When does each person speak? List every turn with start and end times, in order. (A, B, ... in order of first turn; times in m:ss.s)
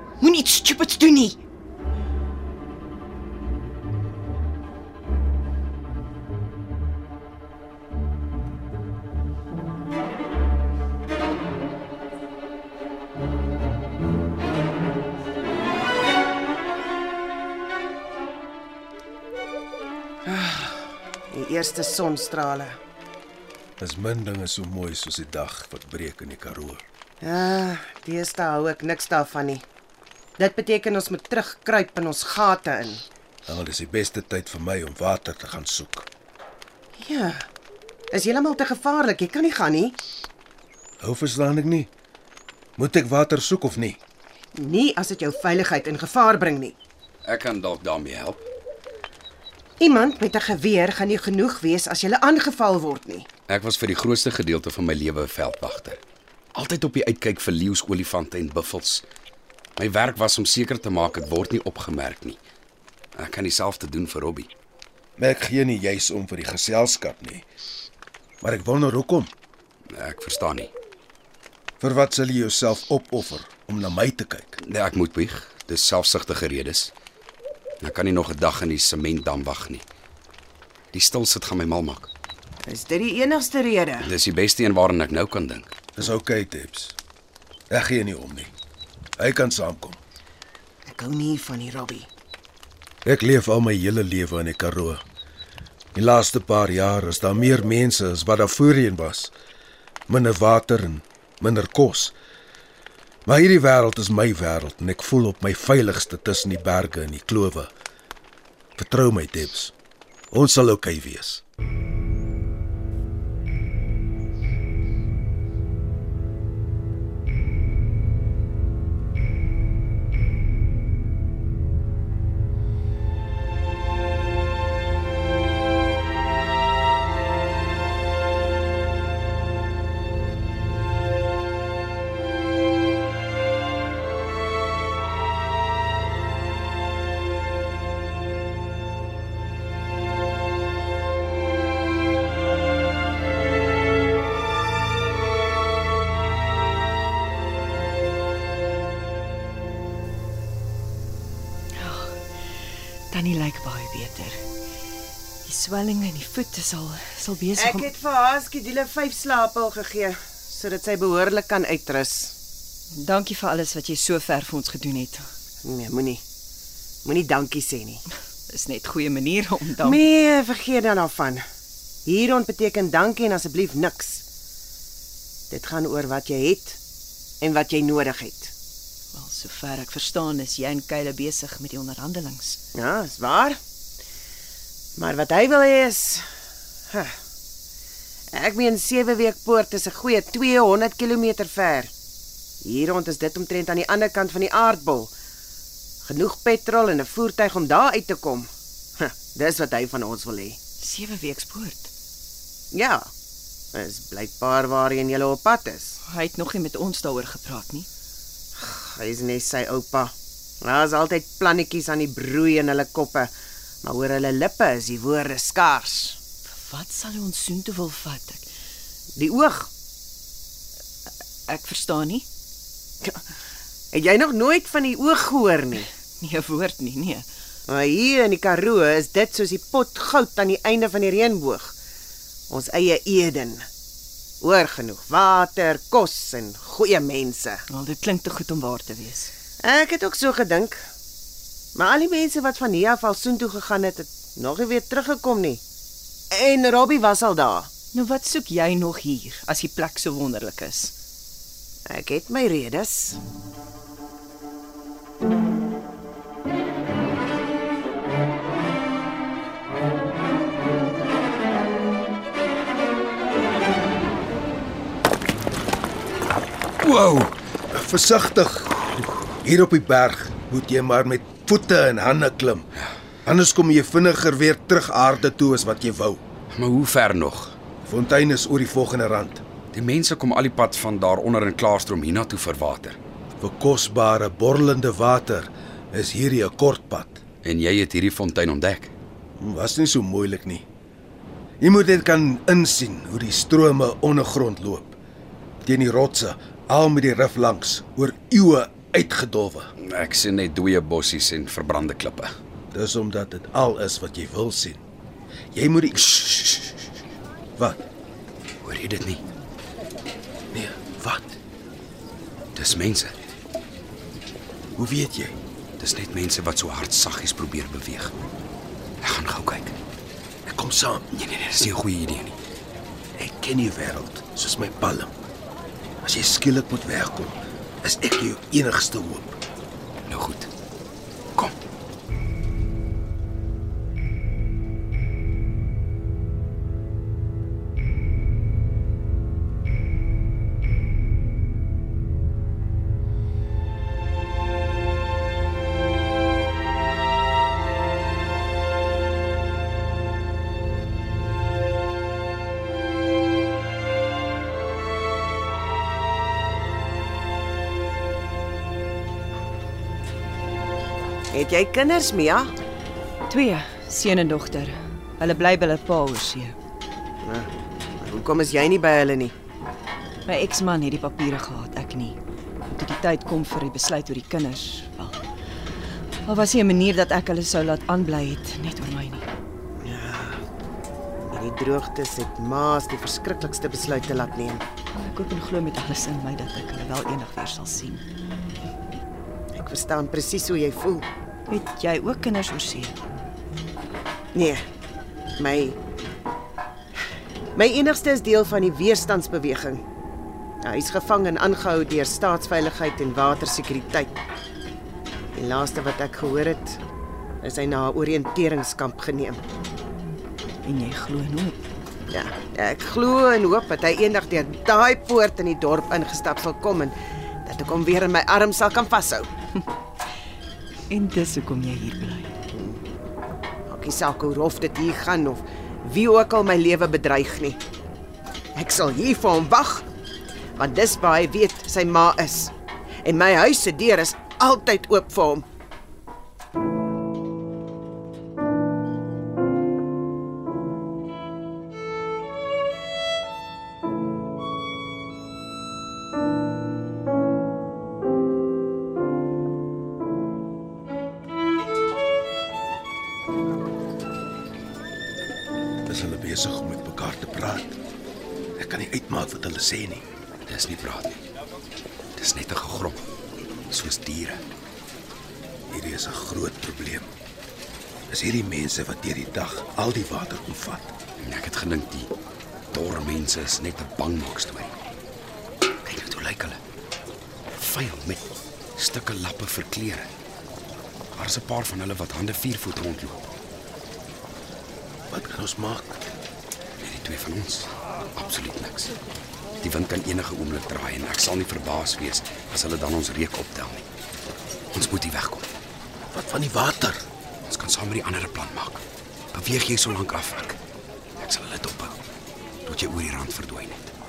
0:00.2-0:01.4 A
0:20.2-0:22.8 B
0:23.8-0:26.8 C
0:27.2-0:29.6 B
0:30.4-0:33.0 B
0:33.5-0:36.1 C
0:37.0-0:37.5 B
0:38.1-0:40.0 B
0:41.0-0:41.9 C
0:42.8-0:44.0 C
0:44.6-0:46.8 B
0:47.2-0:48.4 D
0:49.8-0:53.3 B
0:53.5-0:56.0 D
0:56.6-0:59.0 D
0:59.8-1:02.4 D
1:03.2-1:04.5 D
1:05.2-1:07.5 C
1:08.4-1:09.3 C
1:09.9-1:10.7 D
1:11.8-1:14.6 C
1:14.6-1:16.9 D
1:17.8-1:19.8 D
1:20.9-1:22.1 D
1:22.6-1:24.1 B
1:24.0-1:25.7 D
1:26.0-1:27.0 C
1:27.7-1:28.5 C
1:29.2-1:30.0 C
1:30.9-1:32.1 B
1:33.0-1:35.0 C
1:36.0-1:39.3 C
1:40.1-1:42.2 C
1:43.3-1:47.7 C
1:48.8-1:49.7 C
1:50.3-1:51.4 C
2:31.8-2:32.2 A
2:33.1-2:34.4 A
2:35.4-2:37.9 A
2:37.6-2:42.4 B
2:43.0-2:45.3 A
2:45.6-2:46.2 B
2:47.0-2:48.0 B
2:48.5-2:50.0 A
2:49.8-2:51.4 B
2:52.1-2:54.2 B
2:55.5-2:56.8 B
2:57.4-2:58.5 B
2:59.1-3:02.6 A
3:02.8-3:03.6 B
3:05.0-3:06.3 B
3:08.3-3:11.9 B
3:12.6-3:15.1 B
3:16.0-3:20.6 B
3:20.8-3:21.9 A
3:22.7-3:23.1 B
3:23.7-3:26.0 B
3:26.0-3:27.9 A
3:28.6-3:33.3 B
3:33.8-3:36.2 B
3:36.5-3:38.5 A
3:39.2-3:39.7 B
3:41.5-3:42.3 A
3:43.9-3:45.9 B
3:46.2-3:47.3 A
3:47.7-3:51.7 B
3:52.5-3:53.7 B
3:54.4-3:57.6 B
3:57.7-3:59.3 A
3:59.6-4:00.8 B
4:01.8-4:05.6 B
4:06.3-4:07.7 B
4:07.9-4:10.9 A
4:11.9-4:13.2 B
4:26.8-4:27.3 D
4:27.7-4:32.7 C
4:33.2-4:36.2 C
4:36.5-4:37.6 D
4:37.8-4:39.4 C
4:39.7-4:43.0 D
4:43.4-4:47.2 C
4:47.4-4:48.9 D
4:49.4-4:50.7 C
4:51.6-4:55.0 C
4:55.6-4:59.7 C
4:59.8-5:02.3 D
5:02.7-5:04.8 C
5:05.5-5:06.8 C
5:07.6-5:07.8 C
5:08.6-5:09.2 D
5:10.5-5:11.4 C
5:12.6-5:13.2 D
5:14.8-5:15.4 C
5:15.8-5:18.1 D
5:19.0-5:19.8 D
5:20.4-5:21.1 C
5:21.1-5:22.4 D
5:23.2-5:25.1 C
5:26.0-5:29.4 C
5:30.1-5:30.5 D
6:01.3-6:02.5 B
6:03.3-6:06.6 A
6:07.2-6:09.3 B
6:10.3-6:15.2 A
6:16.2-6:19.3 A
6:19.8-6:20.4 B
6:21.3-6:24.6 B
6:24.9-6:28.0 A
6:29.5-6:31.1 B
6:31.5-6:33.0 A
6:34.3-6:34.6 B
6:35.4-6:35.8 B
6:37.6-6:39.8 B
6:40.6-6:44.1 B
6:45.4-6:46.8 B
6:47.4-6:49.4 B
6:50.6-6:51.6 A
6:52.1-6:59.3 B
7:00.9-7:02.3 A
7:02.5-7:02.8 B
7:03.7-7:07.6 B
7:08.6-7:09.9 B
7:10.6-7:12.5 B
7:13.0-7:15.5 B
7:35.9-7:37.8 C
7:38.6-7:40.0 C
7:40.4-7:41.2 D
7:42.2-7:43.1 D
7:43.7-7:44.4 D
7:45.7-7:47.1 C
7:48.1-7:50.9 C
7:51.2-7:52.1 D
7:52.7-7:54.7 D
7:55.8-7:56.6 D
7:57.6-8:00.1 D
8:01.2-8:03.3 D
8:05.1-8:06.0 C
8:06.8-8:08.9 D
8:09.6-8:13.8 D
8:14.7-8:15.5 D
8:16.1-8:17.0 C
8:17.5-8:18.8 D
8:19.3-8:20.6 D
8:21.2-8:22.0 D
8:22.7-8:23.9 D